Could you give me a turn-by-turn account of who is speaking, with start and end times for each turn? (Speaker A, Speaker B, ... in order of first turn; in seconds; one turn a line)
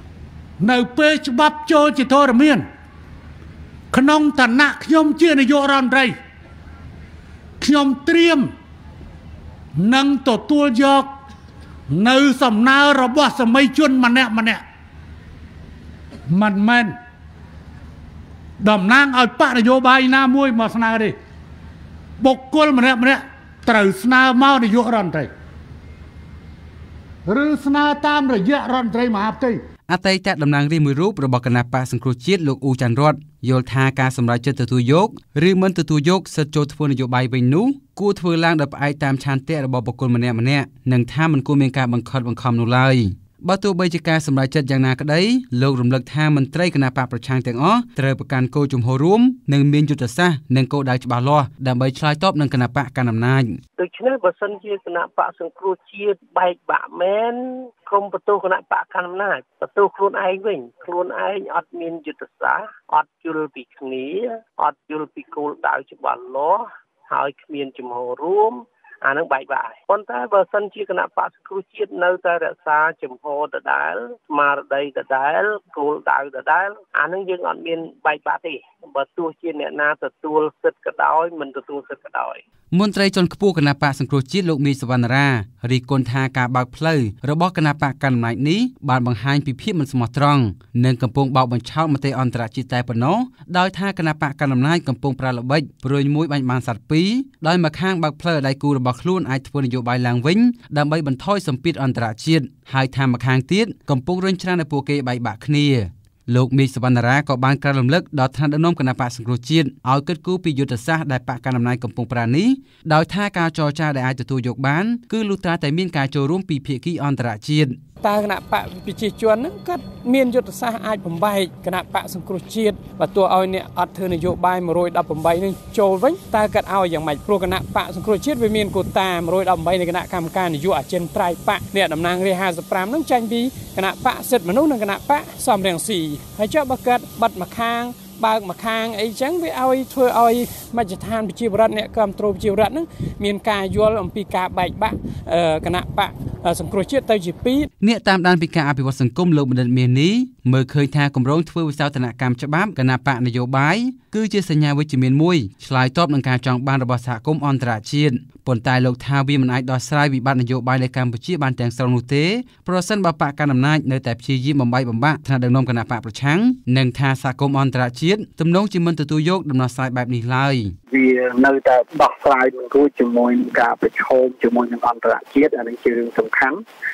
Speaker A: 0.6-2.6
Speaker A: 3.9-6.1
Speaker A: 7.6-8.5
Speaker A: 9.8-11.1
Speaker A: 11.9-14.6
Speaker A: 16.3-16.9
Speaker A: 18.6-21.2
Speaker A: 22.2-25.3
Speaker A: 27.3-29.6
Speaker B: 29.9-53.6
Speaker C: 53.8-82.4
Speaker B: 82.7-117.8
Speaker D: 118.0-147.7
Speaker B: 147.8-170.8
Speaker E: 170.9-176.6